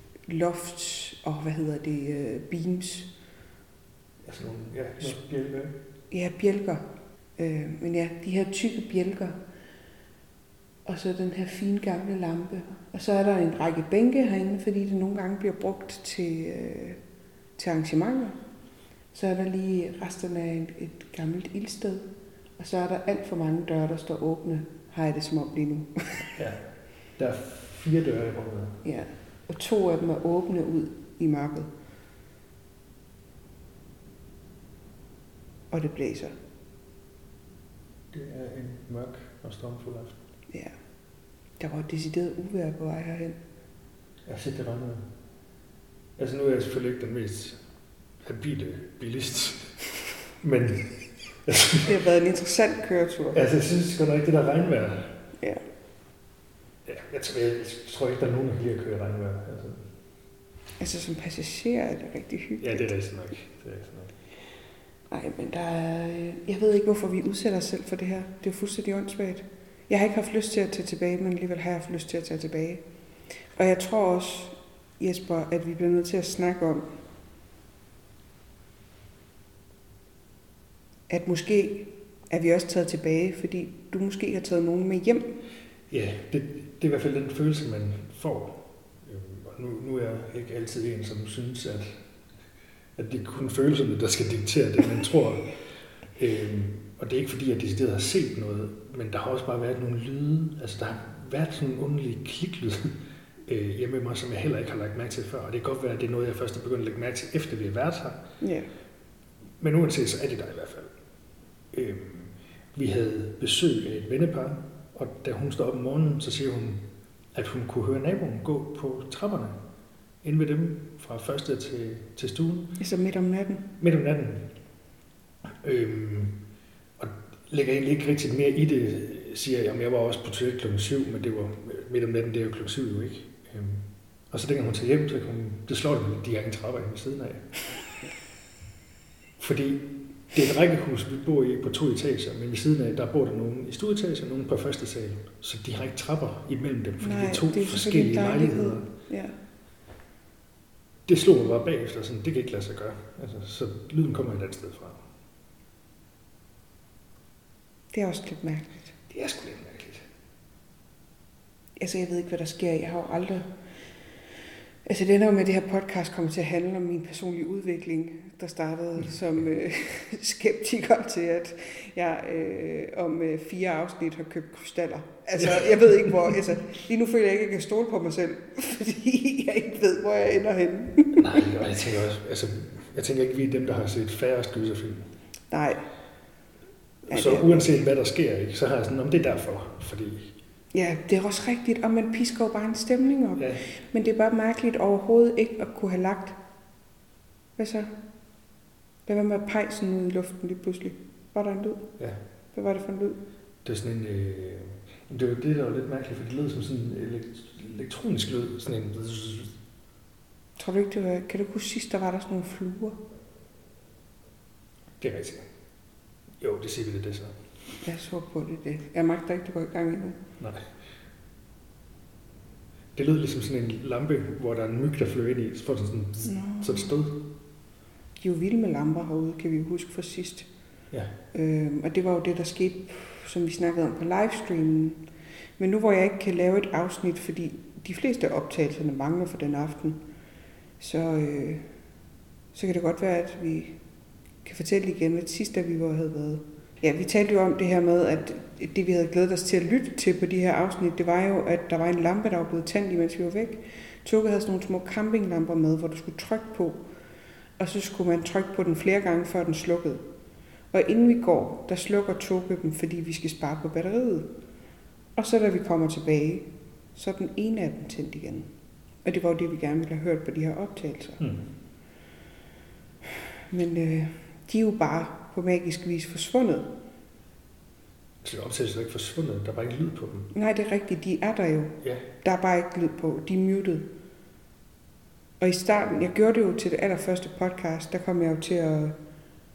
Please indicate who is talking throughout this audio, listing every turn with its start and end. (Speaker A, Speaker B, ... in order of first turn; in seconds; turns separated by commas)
Speaker A: 0.2-3.1, Speaker B: 4.2-5.7, Speaker A: 6.1-9.4, Speaker A: 10.8-17.0, Speaker A: 17.6-18.4, Speaker A: 19.1-26.3, Speaker B: 26.3-28.8, Speaker A: 28.8-31.7, Speaker A: 35.7-36.3, Speaker B: 38.1-40.2, Speaker A: 40.5-40.8, Speaker A: 41.6-43.4, Speaker B: 44.2-45.2, Speaker B: 46.2-47.7, Speaker B: 48.2-51.9, Speaker A: 51.9-53.4, Speaker B: 53.3-55.2, Speaker A: 55.4-55.6, Speaker B: 56.8-60.0, Speaker A: 60.8-62.9, Speaker B: 62.6-64.2, Speaker A: 65.1-76.9, Speaker A: 81.1-85.4, Speaker B: 85.9-92.2, Speaker B: 93.0-108.3, Speaker A: 108.4-108.7, Speaker B: 109.6-110.9, Speaker B: 111.7-119.6, Speaker B: 120.2-122.8, Speaker A: 122.8-123.7, Speaker B: 123.8-124.7, Speaker B: 125.5-137.9, Speaker B: 139.4-148.9, Speaker A: 147.0-149.3, Speaker B: 151.0-155.1, Speaker A: 157.9-158.9, Speaker B: 159.1-160.0, Speaker A: 161.8-163.6, Speaker A: 164.8-181.2, Speaker B: 175.4-176.1, Speaker B: 181.2-185.1, Speaker A: 185.5-185.9, Speaker B: 187.1-190.3, Speaker A: 187.1-187.8, Speaker A: 190.7-196.4, Speaker B: 193.4-193.6, Speaker A: 197.6-198.4, Speaker A: 199.0-203.2, Speaker B: 203.6-209.6, Speaker A: 210.6-213.0, Speaker B: 215.0-217.7, Speaker A: 217.8-220.2, Speaker B: 220.4-220.9, Speaker B: 222.9-227.3, Speaker A: 226.2-226.9, Speaker A: 228.2-230.7, Speaker A: 231.3-240.0, Speaker A: 240.8-241.9, Speaker A: 242.5-260.1, Speaker A: 260.6-264.4, Speaker A: 265.1-271.2, Speaker B: 271.2-271.5, Speaker A: 273.5-276.7, Speaker B: 278.2-280.3, Speaker A: 280.3-283.9, Speaker A: 285.4-289.0